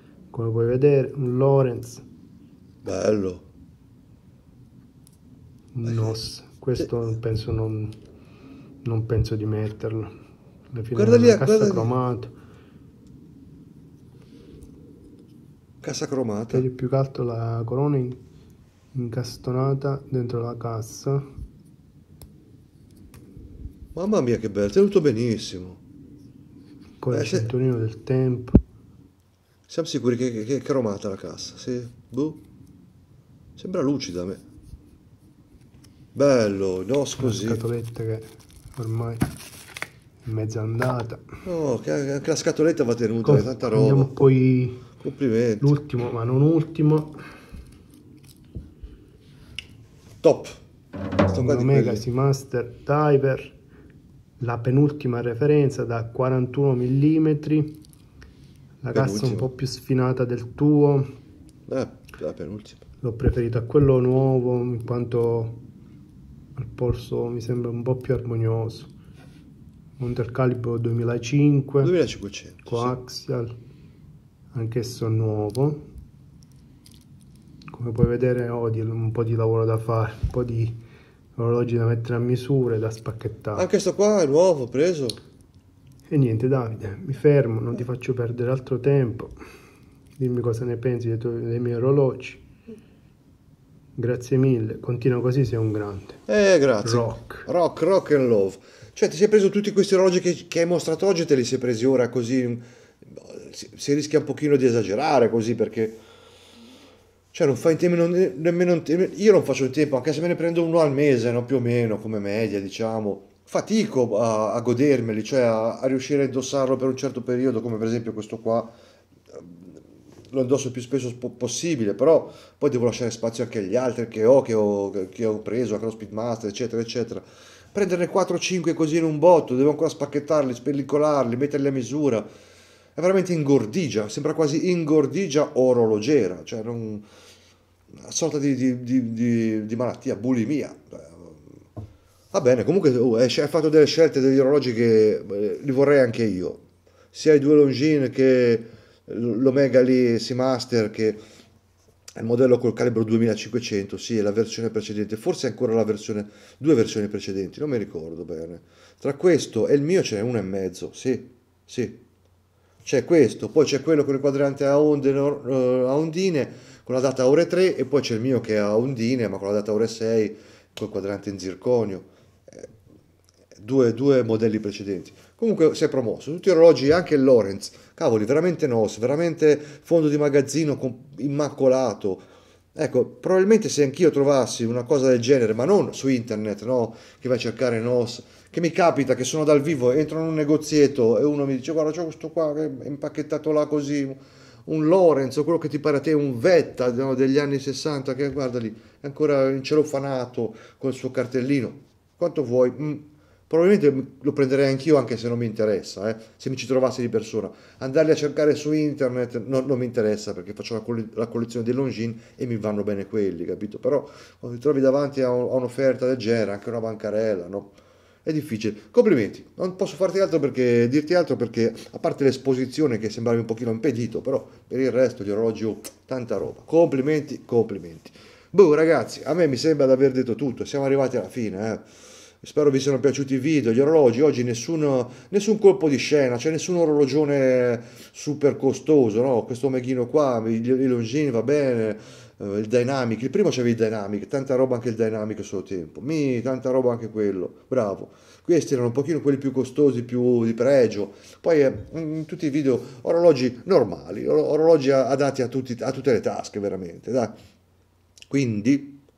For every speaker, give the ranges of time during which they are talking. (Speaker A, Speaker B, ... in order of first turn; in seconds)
Speaker A: 0.3-2.0, 5.8-8.0, 8.8-10.1, 10.7-12.4, 16.5-18.2, 18.9-21.2, 27.0-28.6, 37.2-39.3, 40.2-41.3, 43.2-44.9, 45.6-47.2, 51.3-53.6, 54.4-57.8, 58.8-61.1, 63.0-65.7, 66.6-68.9, 70.0-72.0, 72.7-73.5, 74.5-75.9, 77.7-80.8, 81.4-83.7, 86.1-89.4, 90.2-92.5, 94.0-96.2, 96.8-97.5
Speaker B: 2.8-3.4, 5.9-6.2, 10.9-11.9, 15.8-16.6, 23.9-25.8, 27.1-27.5, 29.7-32.4, 33.6-34.4, 36.1-37.6, 41.5-44.1, 45.0-45.7, 50.2-50.6, 51.3-52.0, 58.9-59.5, 61.7-62.8, 71.8-73.0, 83.5-85.2, 96.3-106.0, 107.3-118.8, 119.3-119.7, 120.3-132.3, 133.0-137.1, 137.9-141.5, 142.3-151.2, 152.2-162.0, 162.8-172.7, 173.6-231.9, 232.4-257.4, 258.3-259.0